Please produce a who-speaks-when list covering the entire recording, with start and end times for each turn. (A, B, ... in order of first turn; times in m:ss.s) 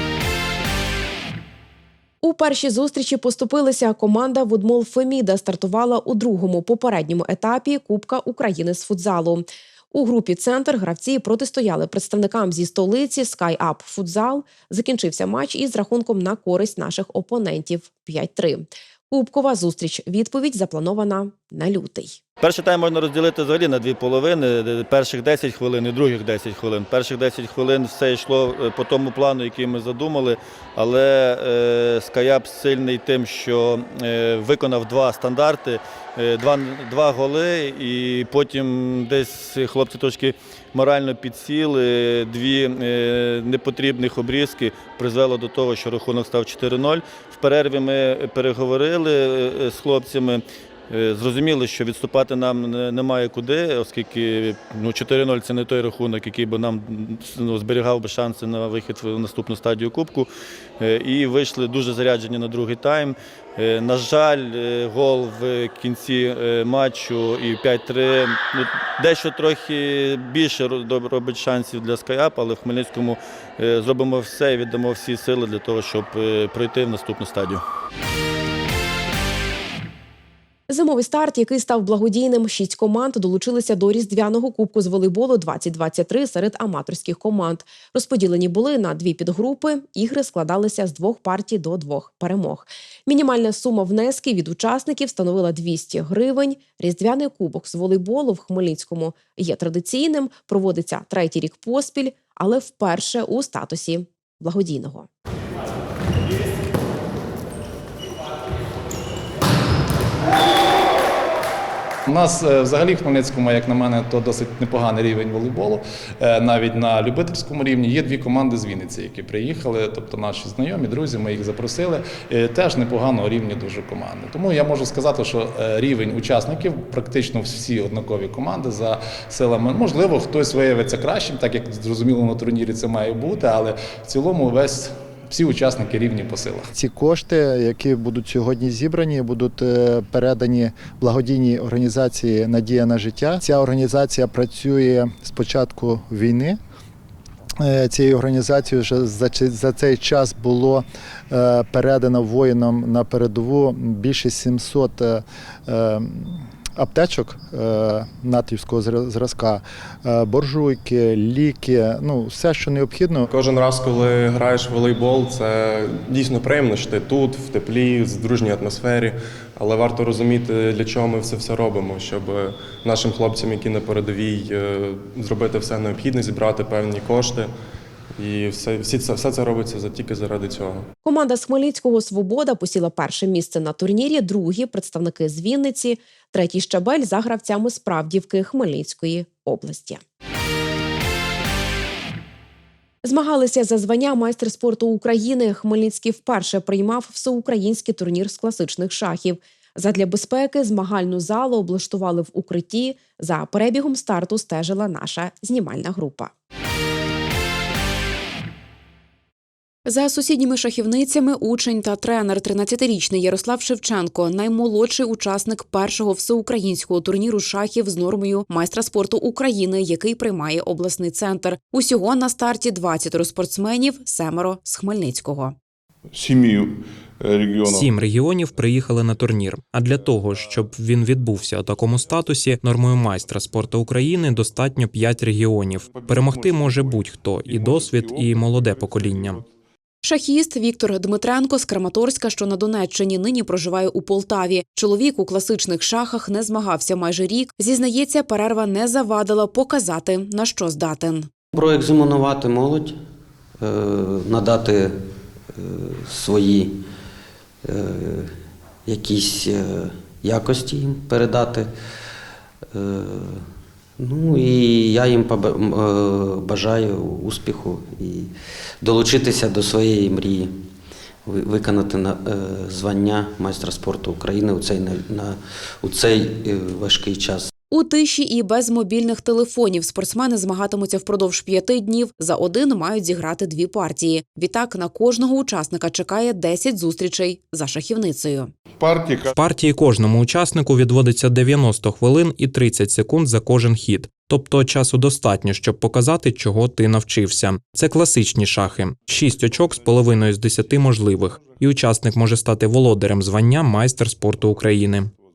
0:02.2-0:22.2 A
0:22.4-1:00.3 B
1:00.8-1:17.6 B
1:20.7-1:45.1 A
1:52.1-2:16.7 C
2:16.7-2:26.6 D
2:27.6-2:43.3 D
2:43.3-2:57.5 E
2:58.2-3:00.9 E
3:01.0-3:10.0 A
3:13.0-3:26.3 A
3:29.8-3:45.6 A
3:46.2-3:47.9 F
3:47.6-3:59.4 G
3:55.9-3:59.3 F
4:00.0-4:11.3 A
4:11.5-4:13.0 F
4:13.6-4:15.0 F
4:15.6-4:16.8 F
4:17.7-4:18.3 F
4:18.9-4:21.7 F
4:22.7-4:23.4 F
4:24.0-4:28.3 F
4:28.8-4:30.5 F
4:31.3-4:37.5 F
4:37.7-4:48.5 A
4:49.3-5:05.1 G